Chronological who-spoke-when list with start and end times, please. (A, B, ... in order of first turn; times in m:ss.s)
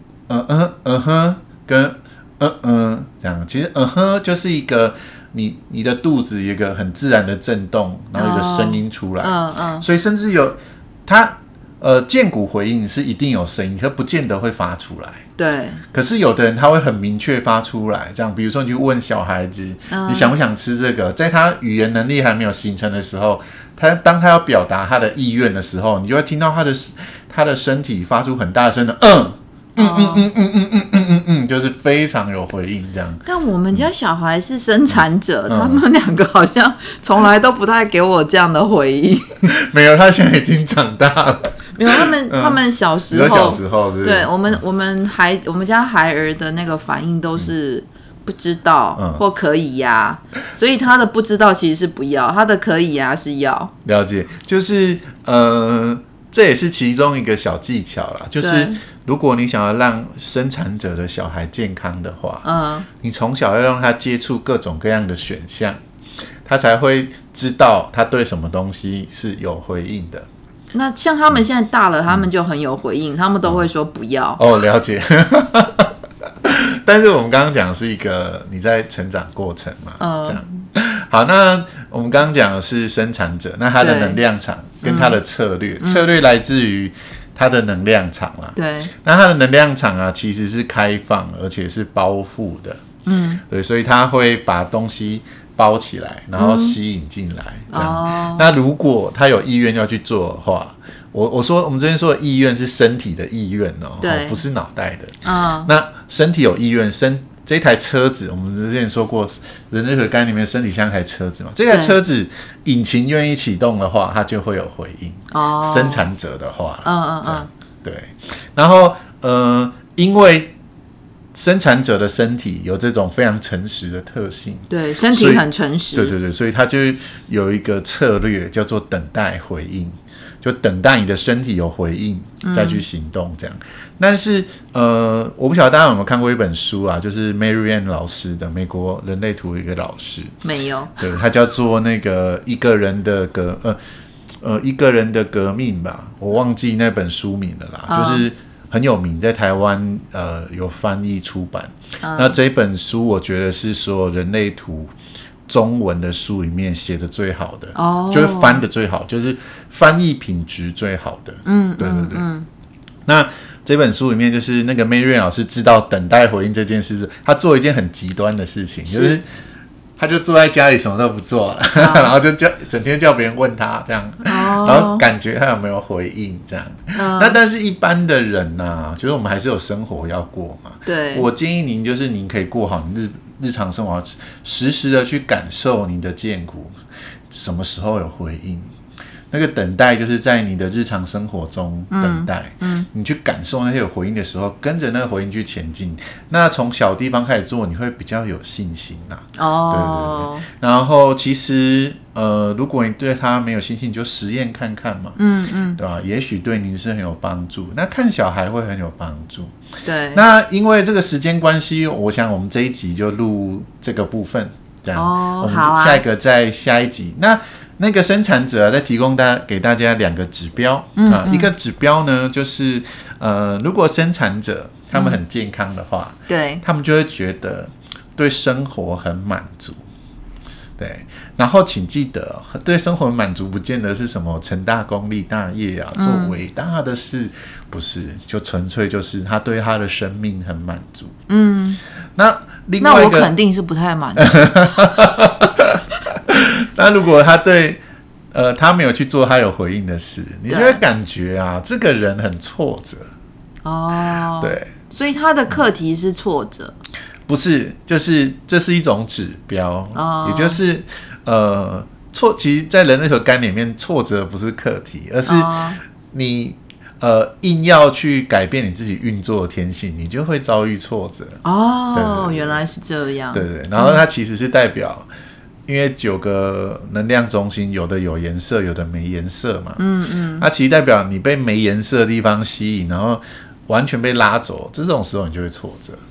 0:00.3-0:15.2 A
0:08.1-0:09.8 B
0:15.4-0:15.8 B
0:15.9-0:33.2 A
0:19.9-0:20.3 B
0:29.8-0:30.2 B
0:33.2-0:39.5 B
0:35.5-0:35.8 A
0:39.4-0:42.6 A
0:41.7-0:53.7 B
0:43.1-0:44.3 A
0:49.0-0:49.2 A
0:53.8-1:02.5 A
0:58.4-0:58.8 B
1:02.4-1:02.8 B
1:03.0-1:05.8 A
1:06.4-1:10.3 A
1:10.7-1:14.4 B
1:14.4-1:15.9 A
1:16.4-1:32.8 A
1:20.0-1:20.6 B
1:23.8-1:24.2 B
1:24.8-1:25.2 B
1:25.8-1:26.1 B
1:28.5-1:28.9 B
1:33.0-1:33.4 B
1:33.5-2:00.5 A
1:36.4-1:36.8 B
1:37.7-1:38.5 B
1:44.0-1:44.4 B
1:45.2-1:45.7 B
1:55.3-1:56.0 B
1:56.8-1:57.5 B
2:01.3-2:20.3 A
2:04.7-2:06.1 B
2:12.4-2:12.8 B
2:20.4-2:21.0 B
2:21.0-2:23.8 A
2:24.4-2:34.9 A
2:27.9-2:28.2 B
2:32.0-2:32.4 B
2:35.5-2:42.2 A
2:37.7-2:38.6 B
2:41.4-2:42.5 B
2:43.1-2:49.2 A
2:48.9-2:49.2 B
2:50.0-3:06.7 A
2:51.7-2:52.1 B
2:54.3-2:55.0 B
2:56.9-2:57.4 B
3:00.8-3:01.3 B
3:07.3-3:08.6 A
3:09.3-3:25.2 A
3:11.9-3:12.9 B
3:19.4-3:20.4 B
3:25.2-3:25.8 B
3:25.8-3:29.6 A
3:29.8-3:30.2 B
3:30.1-3:49.8 A
3:34.9-3:36.0 B
3:41.0-3:41.5 B
3:46.3-3:46.6 B
3:50.8-4:01.1 A
3:56.0-3:56.3 B
4:01.3-4:01.8 B
4:02.2-4:03.3 A
4:02.8-4:05.1 B
4:04.2-4:07.8 A
4:08.3-4:13.1 A
4:10.5-4:10.8 B
4:13.6-4:16.7 B
4:14.4-4:14.7 A
4:17.3-4:31.4 A
4:19.9-4:20.6 B
4:25.2-4:25.8 B
4:31.4-4:34.0 B
4:31.9-4:32.6 A
4:33.3-4:35.1 A
4:35.6-4:39.8 A
4:39.8-4:40.4 B
4:40.4-4:46.0 A